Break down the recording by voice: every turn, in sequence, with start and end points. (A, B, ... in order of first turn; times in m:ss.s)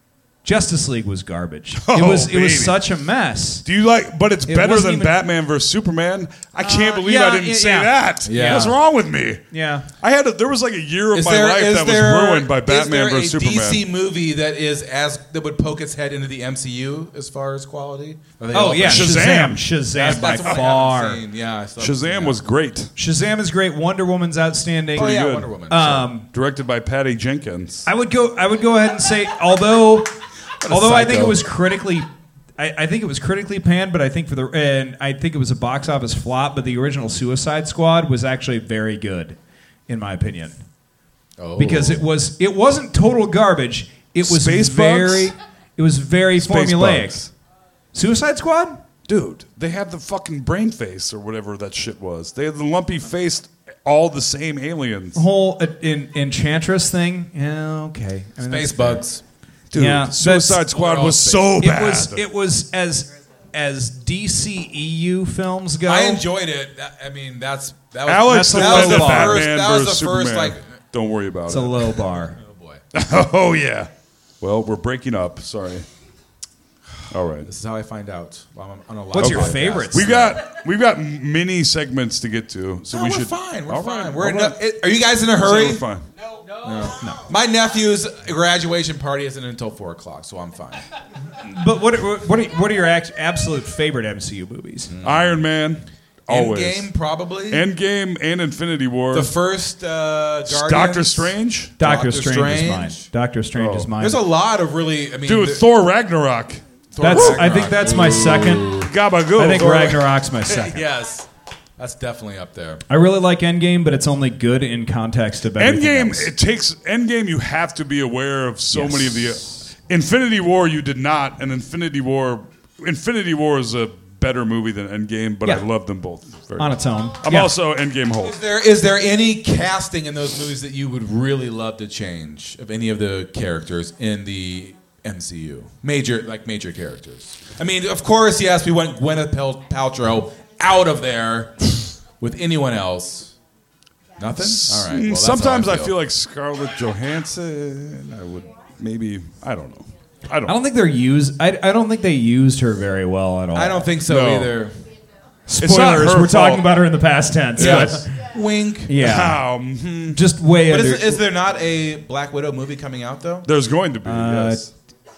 0:00.4-0:03.6 A
0:01.8-0:02.8 B
0:03.6-0:09.4 B
0:04.4-0:05.1 A
0:06.6-0:08.8 A
0:08.2-0:08.8 C
0:09.5-0:09.9 A
0:10.0-0:13.8 B
0:11.1-0:19.2 C
0:18.5-0:21.2 A
0:18.8-0:20.4 B
0:19.9-0:22.4 C
0:21.8-0:22.9 B
0:23.0-0:26.3 A
0:25.0-0:26.0 C
0:25.0-0:27.9 B
0:27.8-0:30.1 A
0:30.6-0:31.4 C
0:30.7-0:40.6 A
0:41.4-0:42.0 C
0:41.6-0:47.2 A
0:44.2-0:45.3 B
0:46.4-0:47.3 B
0:47.9-0:48.8 A
0:49.0-0:55.2 B
0:55.1-0:59.0 A
0:58.4-0:59.2 C
0:59.7-1:02.2 B
0:59.7-1:00.6 A
1:00.7-1:01.6 C
1:01.6-1:06.2 A
1:05.8-1:10.7 C
1:08.0-1:11.9 B
1:08.2-1:09.5 A
1:11.5-1:12.4 A
1:12.3-1:12.8 C
1:12.9-1:15.8 B
1:17.1-1:17.5 B
1:17.4-1:20.4 C
1:19.1-1:20.3 A
1:19.2-1:24.6 B
1:22.9-1:25.8 C
1:25.3-1:26.0 B
1:26.6-1:30.8 C
1:31.4-1:34.9 A
1:34.9-1:35.4 C
1:35.0-1:36.9 B
1:36.3-1:37.6 C
1:37.5-1:39.3 B
1:39.1-1:43.0 C
1:40.5-1:41.7 B
1:41.8-1:44.2 A
1:43.5-1:43.9 B
1:44.0-1:45.6 C
1:45.2-1:47.5 B
1:46.9-1:48.9 C
1:47.0-1:48.8 A
1:48.7-1:49.9 B
1:49.3-1:50.8 A
1:49.5-1:52.8 C
1:52.9-1:56.3 A
1:55.6-2:08.3 B
1:58.7-1:59.4 A
2:06.6-2:07.5 A
2:08.2-2:23.3 C
2:24.2-2:26.0 C
2:24.4-2:30.6 B
2:30.4-2:33.9 A
2:33.5-2:34.8 C
2:34.0-2:34.5 B
2:35.5-2:38.1 A
2:35.6-2:36.7 B
2:37.6-2:38.0 B
2:37.6-2:39.0 C
2:38.9-2:39.6 A
2:39.0-2:40.2 B
2:40.1-2:41.2 A
2:40.6-2:43.5 C
2:43.4-2:44.7 B
2:44.0-2:44.7 A